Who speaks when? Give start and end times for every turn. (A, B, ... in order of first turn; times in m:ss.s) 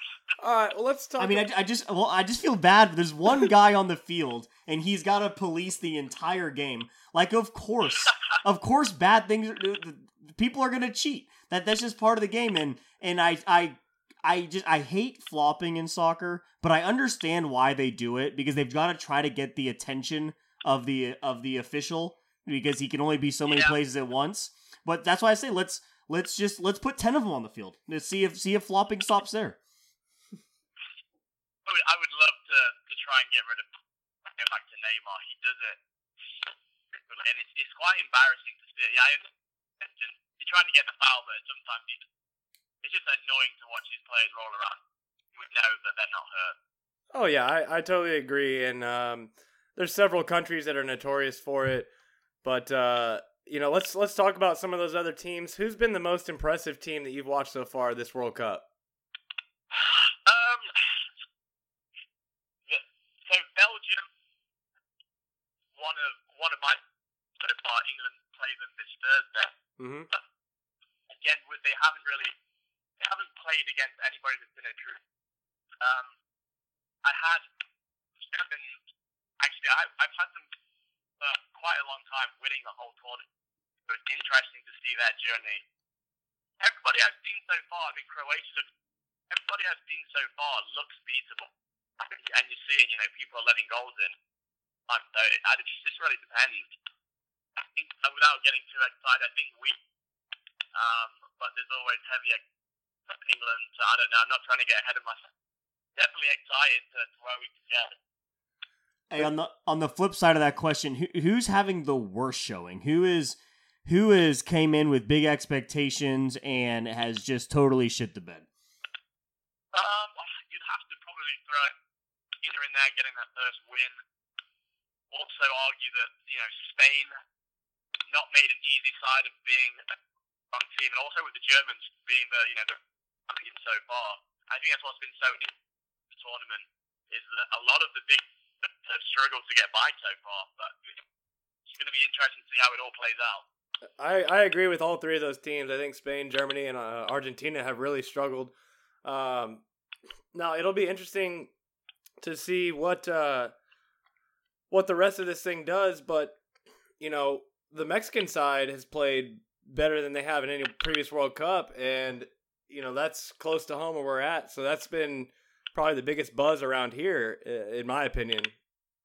0:00.4-0:01.4 A
0:01.2-0:29.6 B
0:23.5-0:23.8 C
0:31.7-0:33.7 C
0:34.4-0:35.8 C
0:36.9-0:39.3 C
0:39.8-0:42.0 C
0:42.8-0:44.8 C
0:45.4-0:46.6 C
0:47.1-0:51.9 A
0:52.4-0:58.6 A
0:59.7-1:00.7 C
1:02.7-1:04.1 C
1:05.8-1:06.8 C
1:07.4-1:09.5 C
1:09.8-1:10.1 A
1:11.1-1:12.3 C
1:13.0-1:15.0 C
1:15.8-1:16.1 C
1:17.0-1:17.5 C
1:18.3-1:18.8 C
1:19.4-1:20.5 C
1:21.2-1:23.2 C
1:23.9-1:25.6 C
1:26.6-1:28.7 C
1:29.3-1:34.2 C
1:34.9-1:36.7 C
1:37.6-1:39.8 C
1:40.7-1:42.4 C
1:43.1-1:45.3 C
1:46.0-1:47.9 C
1:49.1-1:58.5 B
1:59.7-2:01.7 C
2:02.4-2:04.0 C
2:05.1-2:07.2 C
2:08.1-2:09.8 C
2:10.5-2:12.8 C
2:13.3-2:15.5 C
2:16.1-2:21.0 C
2:21.7-2:23.4 C
2:24.0-2:28.5 A
2:29.0-2:29.6 A
2:30.3-2:31.5 A
2:32.2-2:33.5 A
2:34.7-2:36.4 A
2:37.0-2:48.5 A